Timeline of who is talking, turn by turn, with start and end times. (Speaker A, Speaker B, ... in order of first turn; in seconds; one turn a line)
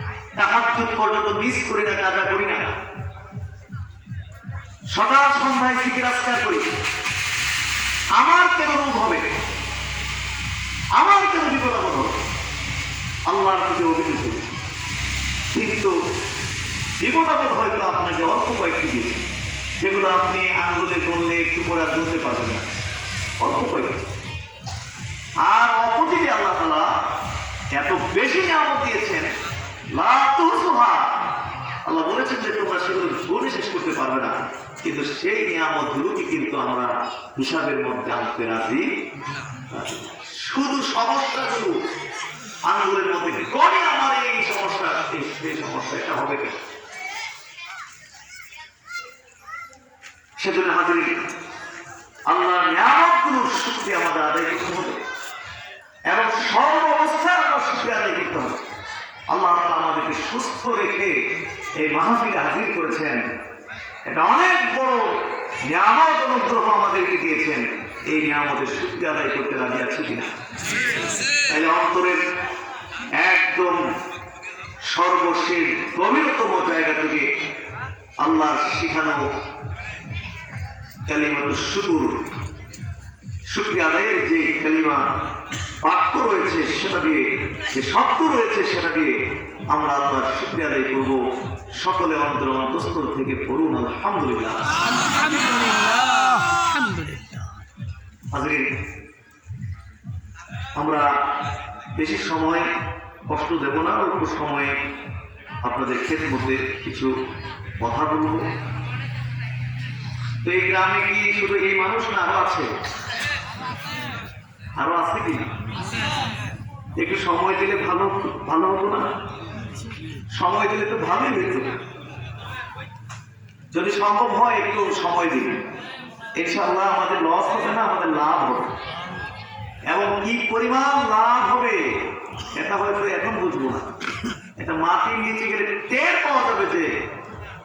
Speaker A: 0.4-2.7
Speaker A: 4.9-6.6
Speaker A: 8.2-9.2
Speaker A: 11.0-12.2
Speaker A: 13.3-14.6
Speaker A: 15.5-15.9
Speaker A: 17.0-19.3
Speaker A: 19.8-22.8
Speaker A: 23.4-24.1
Speaker A: 25.4-26.9
Speaker A: 27.7-29.3
Speaker A: 29.9-31.3
Speaker A: 31.8-39.0
Speaker A: 39.7-41.8
Speaker A: 42.7-46.6
Speaker A: 50.4-51.3
Speaker A: 52.3-55.0
Speaker A: 56.1-58.6
Speaker A: 59.3-61.2
Speaker A: 61.8-63.2
Speaker A: 64.1-70.4
Speaker A: 71.5-72.2
Speaker A: 73.2-73.8
Speaker A: 74.8-77.3
Speaker A: 78.2-79.3
Speaker A: 81.1-82.2
Speaker A: 83.5-85.1
Speaker A: 85.8-89.2
Speaker A: 89.7-91.2
Speaker A: 91.7-95.0
Speaker A: 98.3-98.8
Speaker A: 100.8-101.1
Speaker A: 102.0-102.7
Speaker A: 103.3-104.8
Speaker A: 105.6-107.1
Speaker A: 107.8-108.5
Speaker A: 110.4-112.7
Speaker A: 114.8-115.5
Speaker A: 117.0-119.1
Speaker A: 120.3-121.8
Speaker A: 123.7-125.6
Speaker A: 126.4-128.7
Speaker A: 129.9-132.0
Speaker A: 132.5-133.9
Speaker A: 134.6-136.9